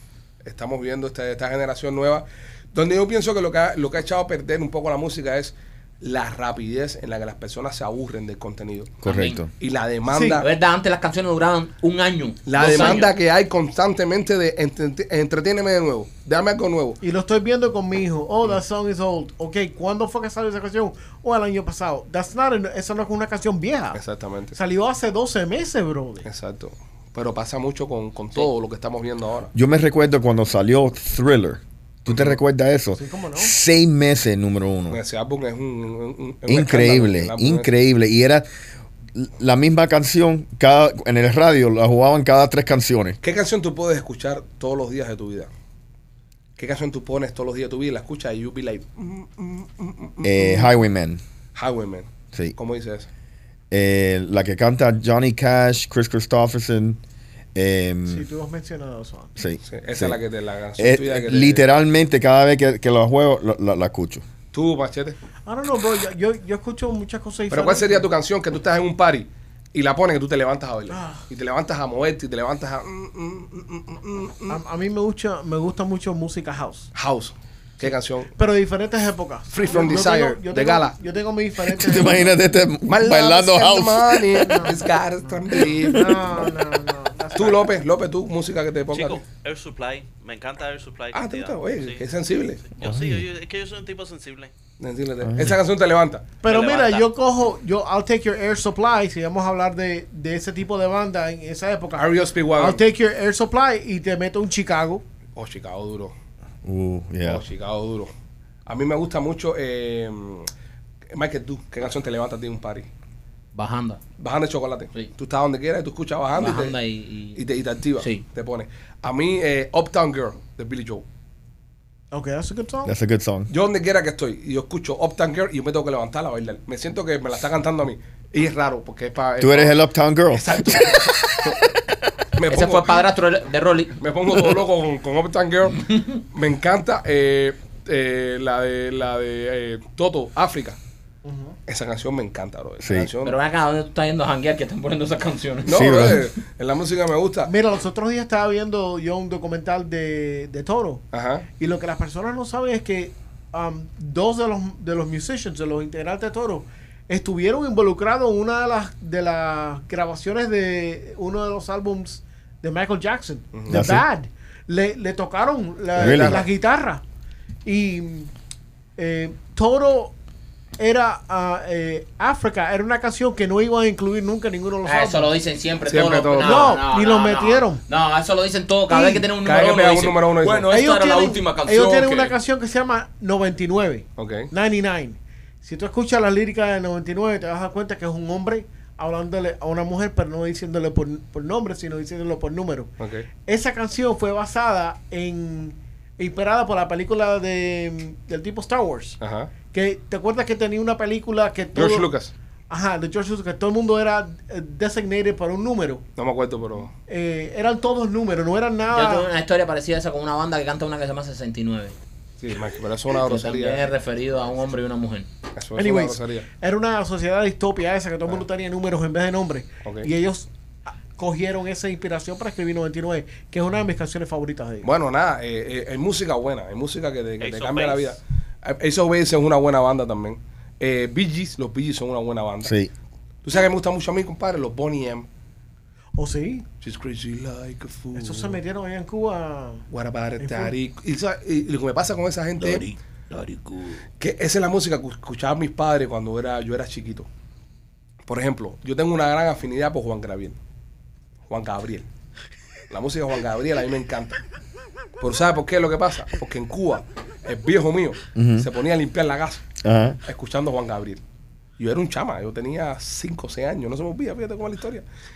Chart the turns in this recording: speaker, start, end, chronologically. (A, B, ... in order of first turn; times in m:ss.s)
0:00.4-0:09.0 A
0:09.0-0:09.5 B
0:09.0-0:09.4 C
0:09.6-0:10.5 A
0:10.1-0:10.4 D
0:10.2-0:13.1 C
0:12.4-0:17.0 A
0:17.0-0:24.0 D
0:23.9-0:24.6 A
0:24.5-0:26.3 D
0:26.2-0:29.5 A
0:29.5-0:35.0 B
0:32.1-0:32.4 A
0:33.0-0:33.5 D
0:34.9-0:37.7 A
0:36.5-0:38.4 B
0:39.1-0:43.2 B
0:43.2-0:45.5 A
0:46.6-0:50.7 A
0:50.2-0:51.2 B
0:51.5-0:53.1 A
0:53.7-0:57.0 B
0:57.5-0:58.2 B
0:58.1-0:59.4 D
0:59.4-1:00.2 B
0:59.6-1:01.6 A
1:00.8-1:04.2 B
1:04.5-1:05.2 A
1:05.4-1:08.1 D
1:07.5-1:14.6 A
1:10.9-1:11.3 D
1:14.5-1:16.9 D
1:16.9-1:18.3 A
1:17.8-1:22.3 D
1:19.5-1:21.0 A
1:21.7-1:24.8 B
1:22.9-1:26.5 A
1:24.4-1:24.8 D
1:25.5-1:26.1 B
1:25.8-1:27.7 D
1:27.3-1:29.2 A
1:28.9-1:32.0 E
1:31.1-1:32.6 A
1:32.7-1:34.5 E
1:32.8-1:33.2 B
1:34.8-1:36.3 A
1:35.2-1:35.5 B
1:36.4-1:45.0 D
1:36.5-1:37.1 E
1:41.9-1:42.8 A
1:45.3-1:46.1 A
1:46.6-1:47.4 B
1:47.2-1:48.1 A
1:48.6-1:50.5 A
1:51.1-1:52.9 A
1:53.5-1:54.0 C
1:54.2-1:56.8 A
1:56.4-1:57.4 C
1:57.4-2:01.0 A
1:58.0-1:58.2 C
2:02.1-2:02.9 D
2:02.8-2:03.5 B
2:03.5-2:09.8 A
2:09.4-2:12.0 B
2:10.3-2:11.5 A
2:12.3-2:13.0 A
2:12.5-2:14.0 C
2:14.0-2:20.8 A
2:21.2-2:21.6 D
2:21.7-2:23.4 A
2:22.8-2:23.1 B
2:23.2-2:26.2 C
2:25.6-2:27.5 A
2:25.7-2:26.3 B
2:27.4-2:31.0 D
2:31.1-2:31.5 A
2:31.6-2:47.0 D
2:43.5-2:43.8 A
2:43.7-2:44.0 B
2:45.9-2:46.5 A
2:46.0-2:46.4 B
2:47.6-2:48.3 D
2:49.0-2:50.1 D
2:50.8-2:55.3 D
2:54.8-3:02.3 C
2:55.9-2:56.8 A
2:56.4-2:57.8 D
2:58.9-2:59.3 D
2:59.4-3:00.7 A
3:00.7-3:22.1 D
3:04.2-3:04.5 A
3:13.0-3:13.3 A
3:19.2-3:19.5 A
3:21.7-3:22.3 A
3:22.7-3:26.0 D
3:26.2-3:26.9 A
3:27.1-3:29.3 D
3:28.9-3:31.9 C
3:32.4-3:33.9 A
3:33.2-3:35.3 C
3:35.5-3:36.5 A
3:35.8-3:44.9 D
3:39.8-3:40.1 A
3:44.8-3:52.7 A
3:47.4-3:48.1 E
3:52.6-3:52.9 B
3:53.4-3:55.3 A
3:56.1-3:56.6 D
3:56.8-3:58.6 A
3:58.1-3:59.9 D
3:59.9-4:02.8 A
4:00.4-4:00.7 D
4:02.6-4:04.0 C
4:04.2-4:07.3 A
4:08.2-4:10.6 A
4:11.5-4:12.0 A
4:12.9-4:14.4 A
4:15.2-4:19.6 A
4:18.3-4:18.7 B
4:19.8-4:20.2 B
4:20.2-4:21.2 A
4:21.8-4:25.0 A